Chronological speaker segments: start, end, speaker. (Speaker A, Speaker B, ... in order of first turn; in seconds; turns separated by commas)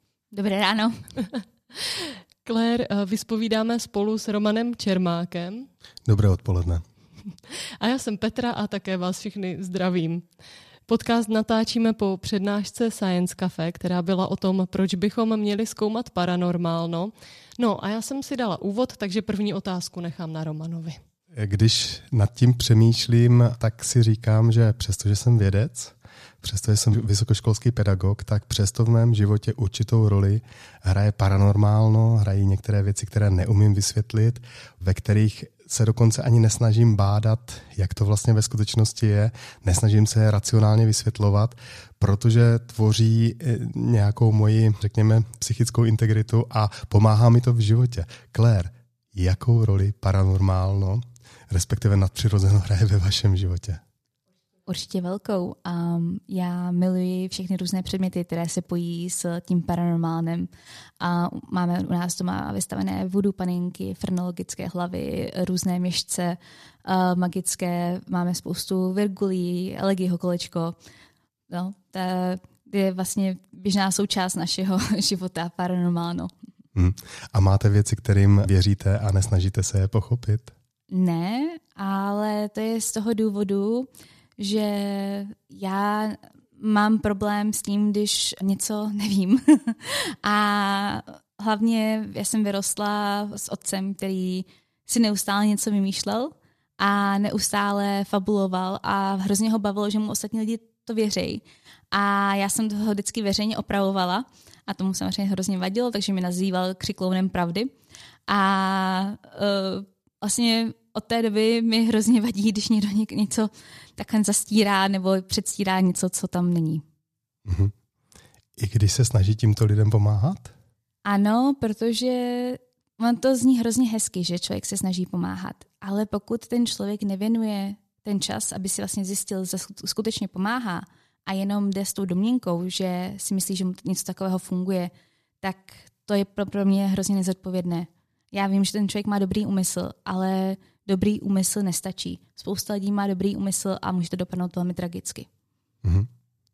Speaker A: 0.3-1.1, Speaker B: 1.8-5.7, Speaker C: 6.0-6.8, Speaker B: 7.8-10.3, Speaker B: 10.9-21.0, Speaker C: 21.3-53.8, Speaker A: 54.7-60.5, Speaker A: 61.0-70.8, Speaker A: 71.5-76.3, Speaker C: 76.7-80.5, Speaker A: 80.9-107.7, Speaker A: 108.3-116.8, Speaker C: 117.4-117.7, Speaker C: 118.6-120.5, Speaker A: 121.0-145.3